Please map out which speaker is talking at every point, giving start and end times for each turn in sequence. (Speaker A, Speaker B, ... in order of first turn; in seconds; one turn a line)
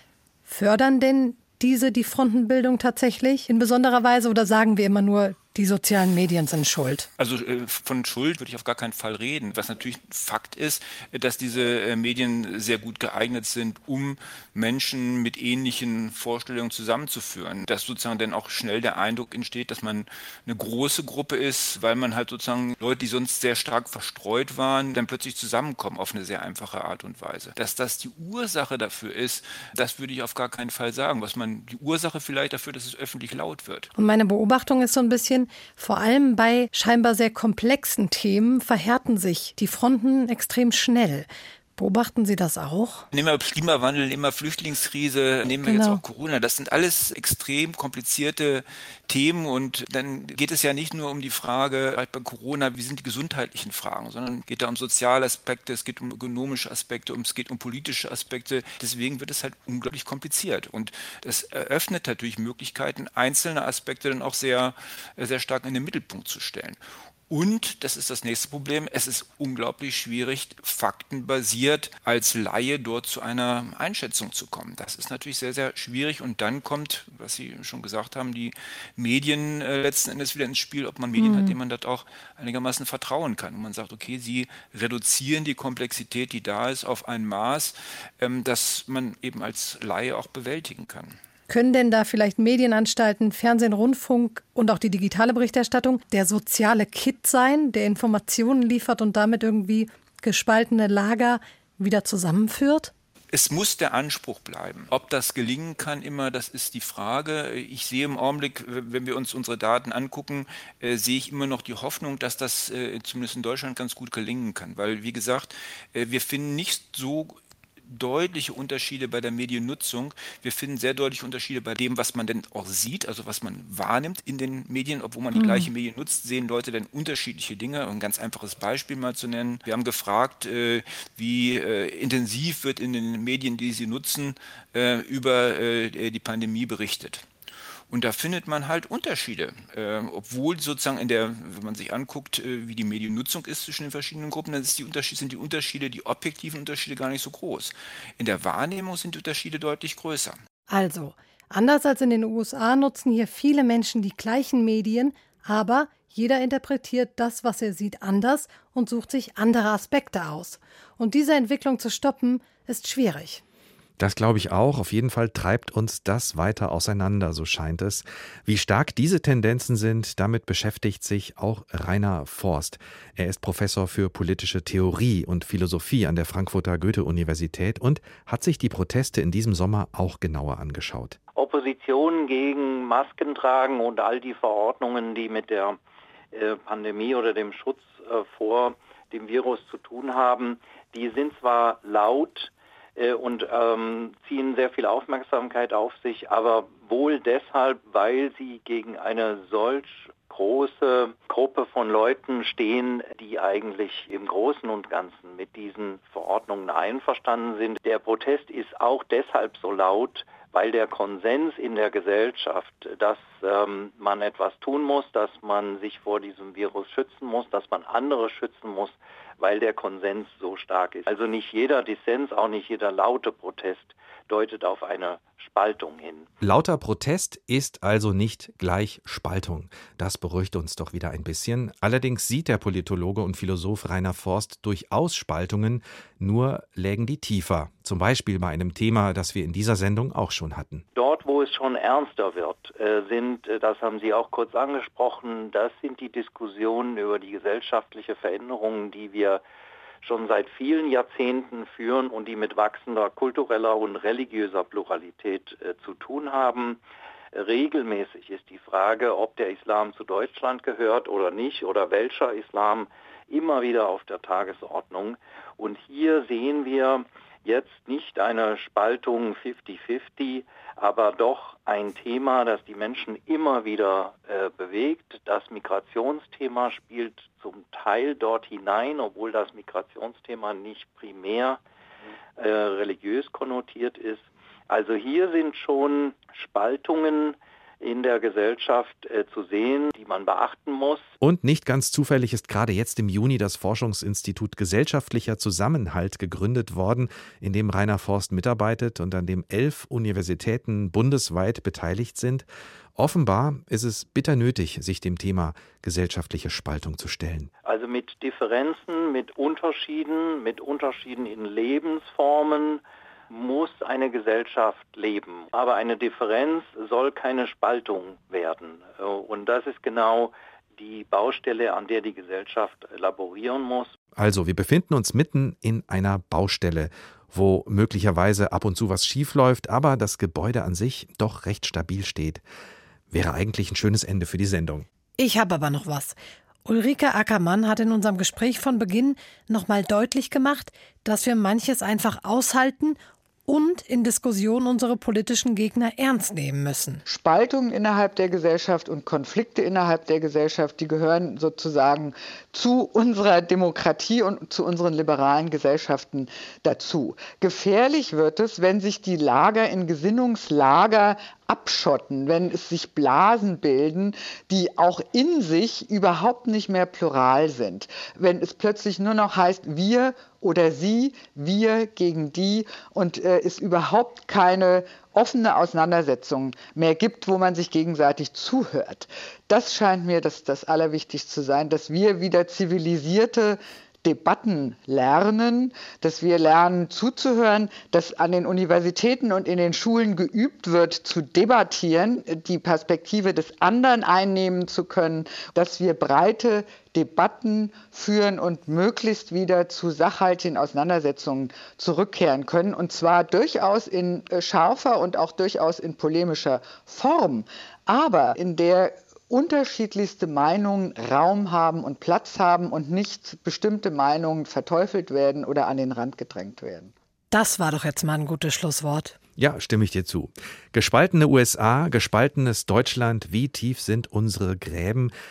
Speaker A: 0.5-7.1
Speaker B: 7.2-33.9
Speaker A: 34.0-43.0
Speaker B: 43.1-91.2
Speaker A: 45.6-46.0
Speaker A: 81.2-81.5
Speaker A: 91.5-102.9
Speaker B: 103.3-137.2
Speaker A: 125.3-125.7
Speaker B: 137.9-150.4
Speaker A: 150.7-163.4
Speaker C: 164.0-181.2
Speaker D: 181.3-185.8
Speaker D: 186.3-226.3
Speaker C: 226.4-240.8
Speaker D: 240.9-249.4
Speaker D: 250.0-256.8
Speaker D: 257.3-281.6
Speaker D: 282.4-291.0
Speaker C: 291.2-307.5
Speaker D: 307.6-323.9
Speaker C: 324.1-332.4
Speaker C: 333.1-334.9
Speaker A: 335.2-347.0
Speaker E: 347.1-416.9
Speaker A: 417.3-419.1
Speaker C: 419.4-425.1